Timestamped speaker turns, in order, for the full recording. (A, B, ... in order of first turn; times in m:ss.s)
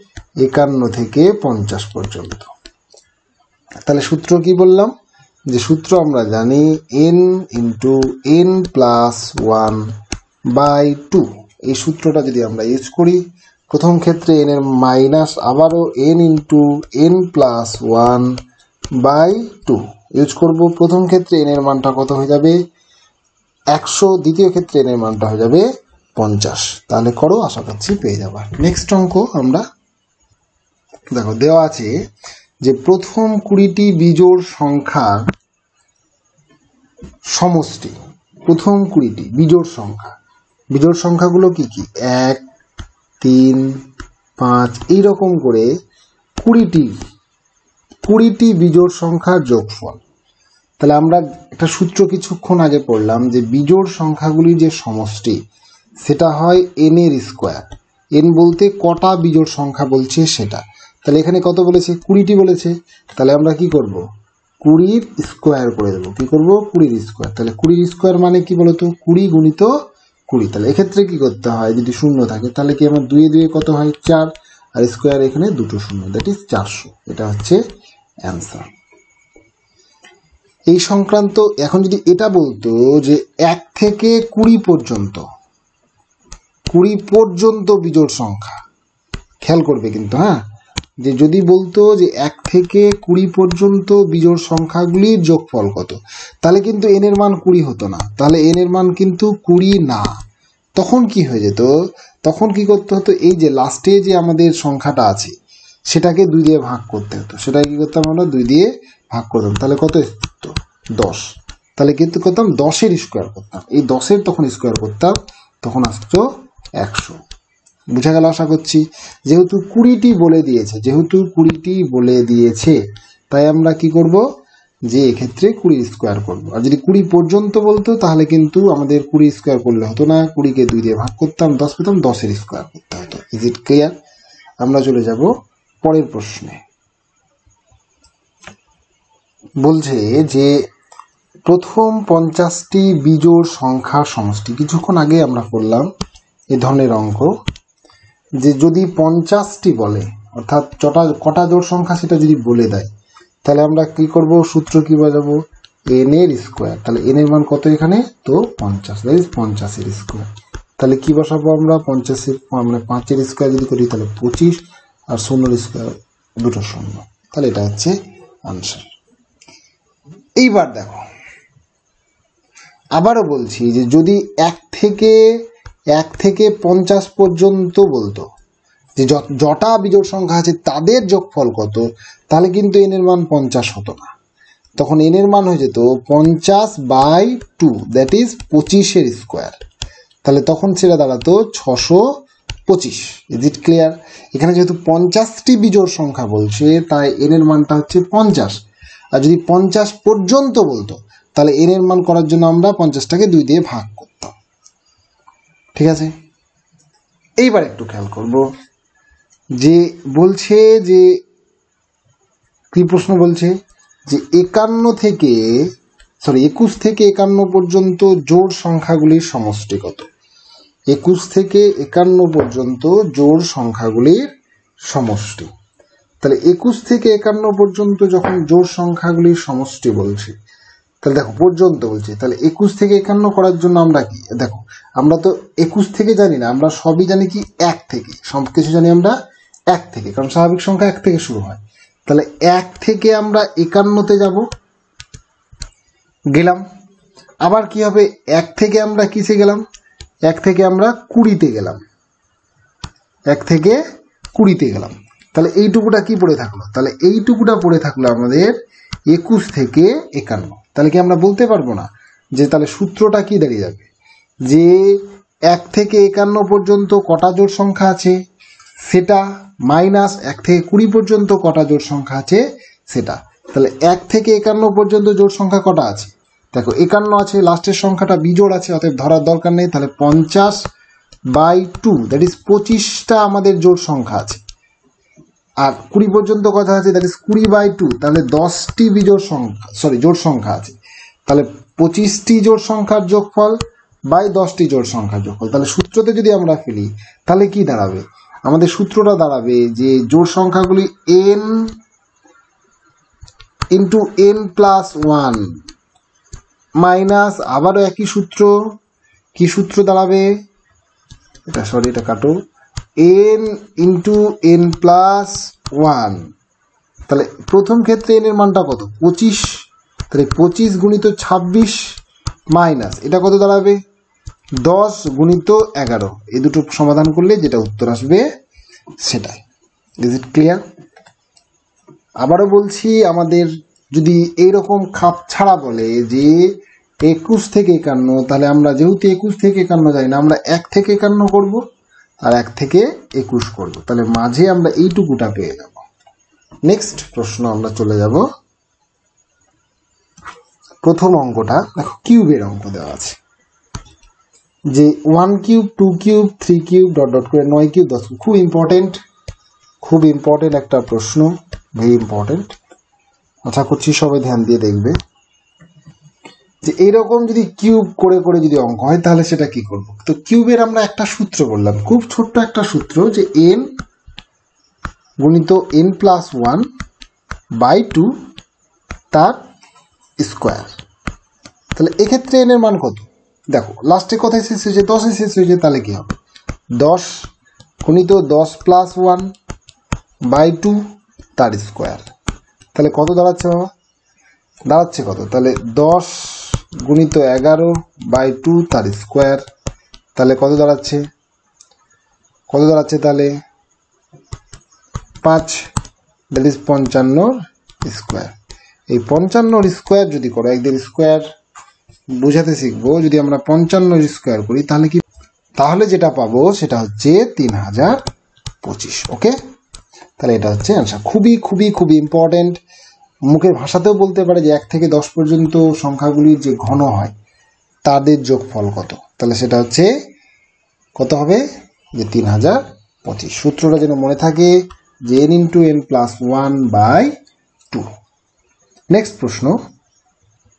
0:00.4-0:02.5 A
0:03.8-0:04.9 A
0:05.5-0:09.8 A
0:10.5-0:18.3 A
0:19.0-0:22.6 A
0:23.7-0:29.6 A
0:31.1-0:31.9 A
0:32.6-0:35.2 A
0:37.3-0:40.1 A
0:40.7-0:42.4 A
0:43.2-0:43.7 A
0:44.4-0:45.7 A
0:46.4-0:46.9 A
0:48.0-0:50.0 A
0:50.8-0:55.4 A
0:56.0-1:04.0 A
1:04.6-1:09.7 A
1:10.3-1:17.6 A
1:18.2-1:18.6 A
1:20.7-1:25.2 A
1:26.7-1:28.6 A
1:29.4-1:30.4 A
1:31.0-1:40.1 A
1:40.8-1:41.7 A
1:42.2-1:45.3 A
1:45.9-1:51.2 A
1:51.8-1:56.2 A
1:56.8-1:57.2 A
1:58.0-2:02.8 A
2:03.3-2:04.2 A
2:04.9-2:13.9 A
2:14.6-2:15.3 A
2:15.8-2:16.6 A
2:19.6-2:20.5 A
2:21.5-2:25.9 A
2:26.5-2:27.3 A
2:28.4-2:32.9 A
2:33.4-2:35.4 A
2:35.9-2:40.2 A
2:40.8-2:44.6 A
2:45.1-2:47.9 A
2:48.4-2:48.9 A
2:50.4-2:51.0 A
2:53.0-2:55.2 A
2:55.9-2:58.2 A
2:59.0-3:04.1 A
3:04.8-3:09.6 A
3:10.2-3:12.0 A
3:12.7-3:18.6 A
3:19.2-3:24.3 A
3:25.8-3:26.1 A
3:27.4-3:28.5 A
3:29.6-3:31.2 A
3:32.7-3:33.5 A
3:34.1-3:35.6 A
3:36.2-3:40.1 A
3:40.9-3:44.3 A
3:44.9-3:45.5 A
3:46.2-3:50.3 A
3:51.0-3:59.1 A
3:59.7-4:04.4 A
4:06.3-4:06.6 A
4:07.4-4:09.6 A
4:10.2-4:11.8 A
4:13.3-4:13.8 A
4:14.3-4:18.6 A
4:19.1-4:23.8 A
4:24.5-4:28.2 A
4:28.9-4:40.6 A
4:41.3-4:44.4 A
4:45.6-4:53.6 A
4:54.1-5:01.7 A
5:03.7-5:05.5 A
5:06.8-5:08.5 A
5:09.4-5:10.3 A
5:11.5-5:12.3 A
5:13.0-5:16.2 A
5:17.1-5:19.6 A
5:20.1-5:21.8 A
5:22.5-5:23.8 A
5:24.6-5:28.2 A
5:29.0-5:29.4 A
5:30.0-5:30.6 A
5:32.2-5:36.5 A
5:37.0-5:41.6 A
5:42.2-5:45.8 A
5:46.6-5:48.2 A
5:50.8-5:53.2 A
5:54.7-5:59.0 A
5:59.8-6:02.5 A
6:03.4-6:05.0 A
6:06.6-6:13.6 A
6:15.2-6:16.6 A
6:17.6-6:18.1 A
6:19.1-6:19.4 A
6:20.2-6:20.7 A
6:21.8-6:26.1 A
6:26.8-6:27.3 A
6:27.8-6:29.3 A
6:30.3-6:30.8 A
6:31.4-6:32.0 A
6:32.7-6:33.7 A
6:34.7-6:39.4 A
6:40.2-6:41.0 A
6:42.5-6:43.3 A
6:45.2-6:45.6 A
6:46.3-6:48.3 A
6:48.9-6:51.2 A
6:52.2-6:55.0 A
6:55.6-6:58.0 A
6:58.6-6:59.4 A
7:00.2-7:02.6 A
7:03.3-7:07.1 A
7:07.8-7:09.9 A
7:11.0-7:11.4 A
7:12.0-7:17.1 A
7:18.9-7:19.6 A